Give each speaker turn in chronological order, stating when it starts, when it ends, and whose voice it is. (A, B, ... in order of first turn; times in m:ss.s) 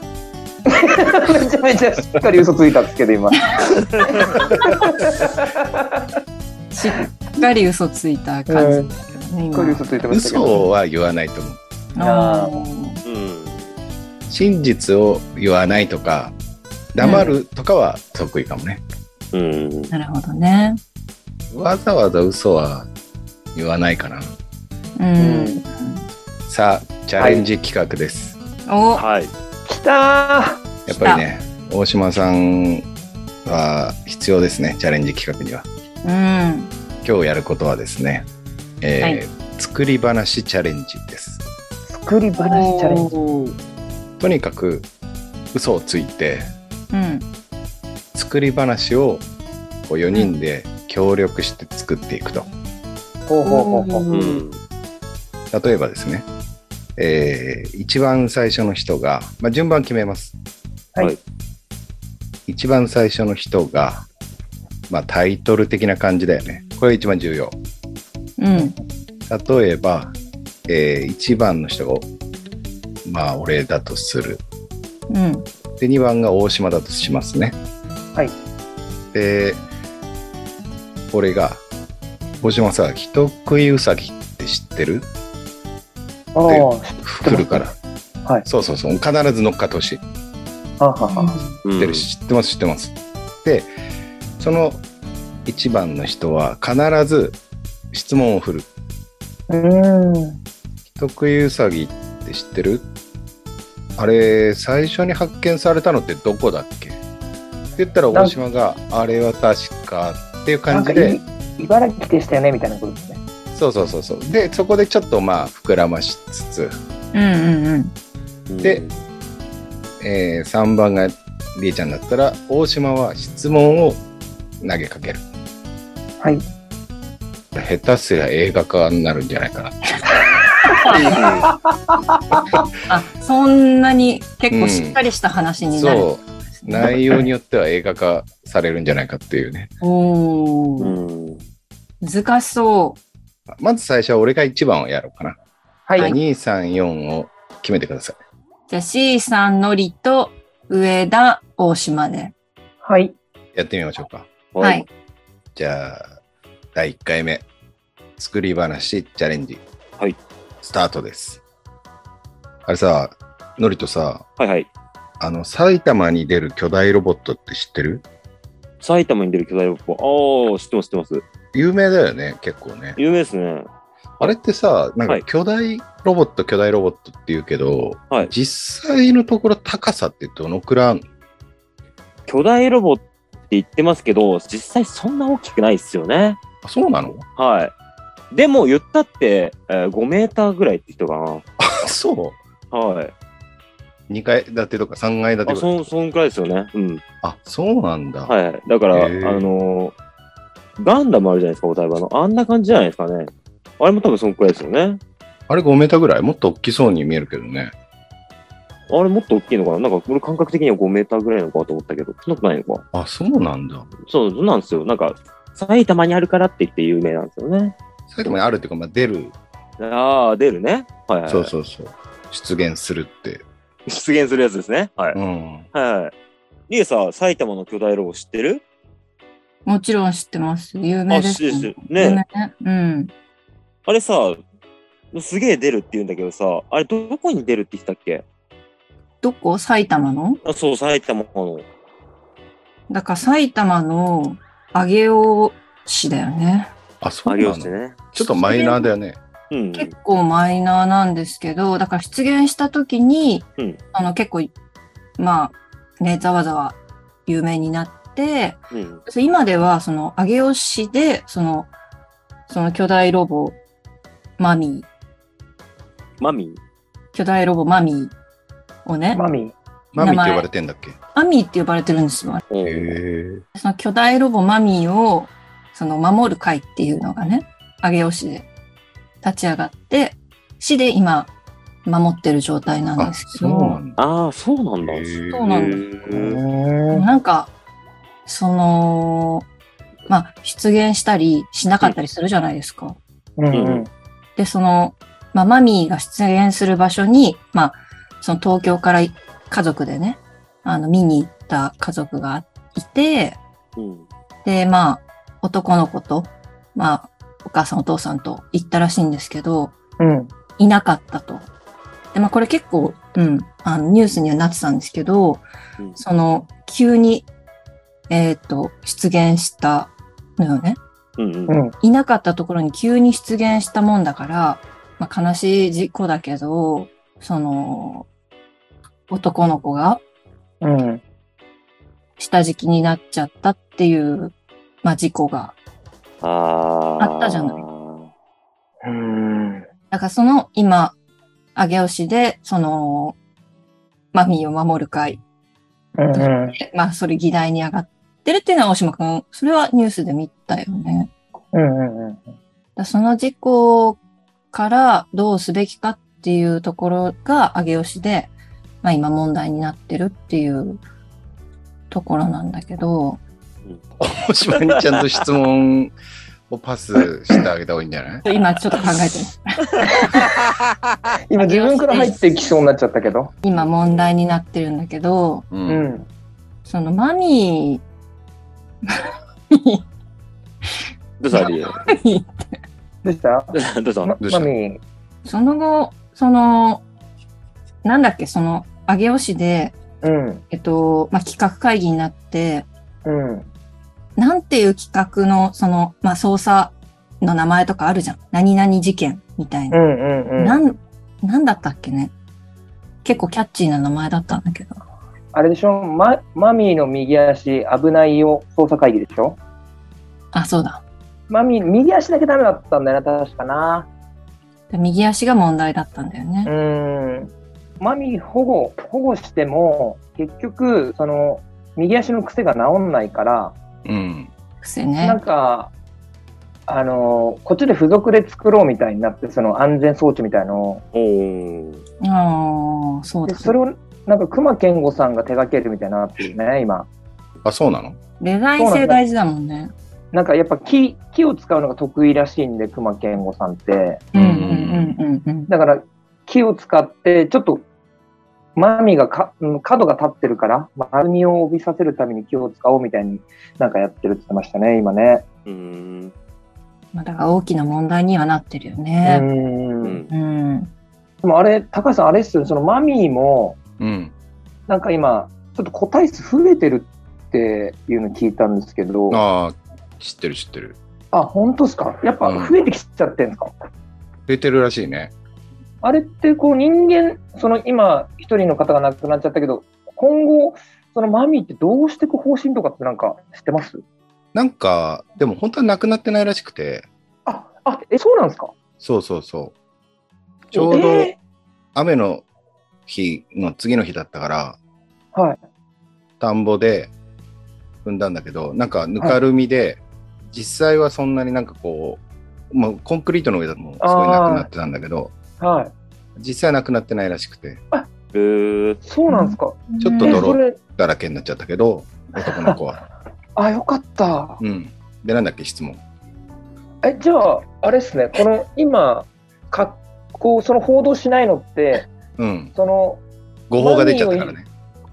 0:00.7-0:06.1 A
0:06.7-0:10.0 B
0:08.5-0:09.0 A
0:09.5-0:10.7 A
0:10.1-0:11.6 C
0:12.0-0:13.0 B
0:12.0-0:12.6 A
0:13.0-0:13.7 D
0:14.3-0:16.4 C
0:16.9-0:18.8 C
0:17.0-0:17.4 B
0:19.3-0:19.9 D
0:19.9-0:20.8 B
0:21.5-0:22.9 C
0:23.6-0:24.4 C
0:25.0-0:26.0 B
0:25.2-0:25.6 A
0:26.5-0:28.4 C
0:27.2-0:27.4 A
0:28.7-0:29.0 B
0:29.0-0:29.3 D
0:29.7-0:30.6 A
0:30.9-0:32.9 C
0:30.9-0:31.2 B
0:33.4-0:35.7 C
0:36.0-0:36.7 B
0:37.0-0:38.3 C
0:38.8-0:41.4 C
0:41.9-0:43.1 A
0:42.4-0:43.6 B
0:44.2-0:44.9 C
0:45.5-0:46.5 C
0:46.9-0:47.3 B
0:48.1-0:49.3 C
0:49.9-0:52.5 C
0:53.3-0:54.1 A
0:53.4-0:54.5 B
0:54.1-0:54.6 D
0:55.5-0:56.3 C
0:57.0-1:00.3 C
1:02.5-1:04.1 C
1:04.9-1:07.6 C
1:08.4-1:08.8 B
1:09.3-1:10.2 C
1:10.7-1:12.1 C
1:13.0-1:14.4 C
1:15.1-1:15.4 B
1:15.8-1:17.6 C
1:19.1-1:19.6 C
1:21.1-1:21.6 C
1:22.4-1:25.1 C
1:26.3-1:27.7 A
1:26.5-1:27.8 C
1:28.5-1:30.0 C
1:30.8-1:31.4 A
1:31.0-1:31.6 B
1:31.6-1:32.1 D
1:31.8-1:33.7 C
1:34.4-1:34.8 C
1:35.5-1:37.4 C
1:37.9-1:38.7 C
1:39.5-1:40.4 A
1:41.0-1:42.8 C
1:44.0-1:47.0 C
1:47.8-1:51.2 C
1:50.7-1:53.2 A
1:53.5-1:56.8 C
1:57.1-1:57.9 B
1:58.5-1:59.0 D
2:00.0-2:04.0 C
2:04.6-2:05.2 C
2:07.5-2:09.8 C
2:10.7-2:12.6 A
2:10.8-2:11.2 B
2:10.9-2:11.5 D
2:12.9-2:17.2 B
2:14.5-2:15.0 C
2:15.7-2:19.7 C
2:19.8-2:21.0 B
2:20.8-2:21.4 D
2:22.0-2:23.0 B
2:23.5-2:25.4 C
2:25.9-2:26.1 A
2:26.0-2:28.2 C
2:28.7-2:32.3 B
2:32.8-2:33.1 A
2:33.5-2:34.3 C
2:34.5-2:34.9 D
2:34.6-2:34.9 B
2:35.6-2:36.2 C
2:36.7-2:37.5 C
2:38.2-2:39.6 C
2:40.6-2:41.4 C
2:42.7-2:44.2 C
2:44.4-2:44.7 D
2:45.2-2:48.0 C
2:48.8-2:51.2 D
2:51.5-2:53.0 C
2:53.0-2:54.3 D
2:54.2-3:01.0 C
3:02.3-3:06.4 D
3:06.6-3:07.2 C
3:07.4-3:07.7 D
3:08.3-3:11.4 D
3:11.6-3:12.4 C
3:12.7-3:13.1 D
3:14.1-3:15.7 C
3:15.5-3:17.0 D
3:17.2-3:18.3 C
3:18.3-3:20.0 D
3:18.9-3:19.5 C
3:20.8-3:25.0 D
3:25.5-3:27.7 C
3:28.9-3:32.8 D
3:32.9-3:33.9 C
3:34.0-3:37.8 D
3:38.1-3:39.3 C
3:39.8-3:41.5 D
3:41.3-3:43.4 C
3:43.9-3:45.2 D
3:45.2-3:45.7 C
3:45.7-3:46.1 D
3:46.7-3:48.6 D
3:49.7-3:53.1 B
3:51.1-3:52.2 D
3:53.9-3:54.4 D
3:55.1-3:58.2 D
3:59.2-4:00.4 B
4:00.4-4:01.6 D
4:02.9-4:06.7 B
4:07.0-4:09.2 C
4:07.3-4:08.0 D
4:08.2-4:08.9 B
4:09.5-4:09.9 D
4:09.8-4:14.5 B
4:15.2-4:21.7 B
4:18.7-4:19.0 D
4:22.5-4:23.6 B
4:24.4-4:24.9 B
4:26.2-4:26.6 D
4:27.1-4:28.1 B
4:28.8-4:29.2 B
4:29.1-4:29.5 A
4:29.9-4:31.0 C
4:30.0-4:30.4 B
4:31.2-4:32.4 B
4:32.5-4:33.0 D
4:32.6-4:33.4 C
4:33.6-4:38.5 B
4:39.2-4:41.3 B
4:41.8-4:43.8 B
4:43.0-4:44.0 C
4:44.0-4:46.4 D
4:44.8-4:45.5 C
4:45.3-4:45.8 B
4:46.1-4:47.1 A
4:46.9-4:47.5 B
4:48.3-4:49.5 B
4:50.1-4:53.0 B
4:53.4-4:53.9 A
4:53.5-4:53.8 D
4:54.4-5:03.4 B
5:03.8-5:04.1 D
5:04.4-5:09.8 B
5:10.0-5:10.3 A
5:10.6-5:11.4 B
5:12.1-5:15.4 B
5:16.0-5:17.3 B
5:18.1-5:20.8 B
5:21.2-5:21.6 D
5:21.5-5:21.8 A
5:21.8-5:28.1 B
5:29.1-5:30.0 B
5:30.6-5:31.0 A
5:32.2-5:35.6 B
5:36.2-5:38.1 D
5:37.0-5:37.6 B
5:38.8-5:39.6 A
5:39.9-5:41.0 B
5:41.6-5:43.2 B
5:44.1-5:45.2 B
5:46.0-5:46.6 A
5:46.1-5:51.1 B
5:51.5-5:52.3 A
5:52.8-5:54.0 B
5:54.5-6:00.8 B
6:01.9-6:03.2 B
6:04.0-6:05.9 C
6:04.5-6:05.0 D
6:06.5-6:08.2 C
6:08.2-6:10.2 B
6:11.3-6:13.3 A
6:11.4-6:12.2 B
6:13.4-6:15.4 B
6:13.5-6:14.1 D
6:15.5-6:15.9 C
6:15.7-6:16.1 A
6:16.7-6:17.8 B
6:18.9-6:19.8 B
6:21.2-6:21.8 D
6:21.3-6:22.3 B
6:23.0-6:24.8 A
6:23.5-6:24.1 D
6:24.2-6:24.5 C
6:25.2-6:26.8 B
6:27.8-6:29.8 B
6:30.0-6:30.4 A
6:30.5-6:32.7 B
6:33.0-6:33.5 A
6:34.2-6:39.8 B
6:39.7-6:40.6 A
6:40.4-6:42.1 B
6:43.0-6:44.8 B
6:45.3-6:49.4 A
6:50.3-6:50.8 B
6:51.3-6:53.9 A
6:54.7-6:56.5 B
6:56.4-7:03.6 A
7:03.8-7:04.3 C
7:04.6-7:05.2 B
7:05.0-7:05.7 A
7:06.7-7:10.8 A
7:10.9-7:11.8 D
7:12.0-7:13.6 B
7:13.3-7:16.9 A
7:17.4-7:18.0 C
7:18.2-7:19.7 B
7:18.6-7:19.0 A
7:20.1-7:24.1 A
7:24.1-7:25.0 C
7:24.1-7:25.5 B
7:25.5-7:27.7 A
7:28.6-7:35.2 A
7:35.5-7:36.1 D
7:36.9-7:39.3 B
7:39.0-7:40.0 A
7:39.8-7:40.1 D
7:40.1-7:40.7 B
7:41.2-7:43.6 A
7:43.8-7:44.1 C
7:44.7-7:49.2 A
7:49.1-7:50.8 C
7:51.1-7:53.5 A
7:52.2-7:52.5 C
7:54.3-7:55.1 C
7:55.8-8:03.8 A
8:04.3-8:06.9 C
8:07.3-8:08.5 A
8:08.8-8:09.5 C
8:10.5-8:11.2 C
8:10.5-8:11.2 A
8:11.8-8:12.2 C
8:12.9-8:14.6 C
8:15.1-8:15.4 A
8:16.2-8:16.9 C
8:17.8-8:25.1 C
8:23.8-8:24.5 A
8:25.4-8:25.7 A
8:26.2-8:27.6 C
8:28.1-8:28.8 D
8:28.8-8:30.6 A
8:29.1-8:30.3 B
8:29.8-8:32.8 C
8:32.2-8:32.6 A
8:33.4-8:34.4 A
8:34.4-8:35.8 C
8:36.8-8:41.9 A
8:42.2-8:42.5 C
8:42.6-8:43.0 A
8:43.5-8:44.5 C
8:43.6-8:44.4 A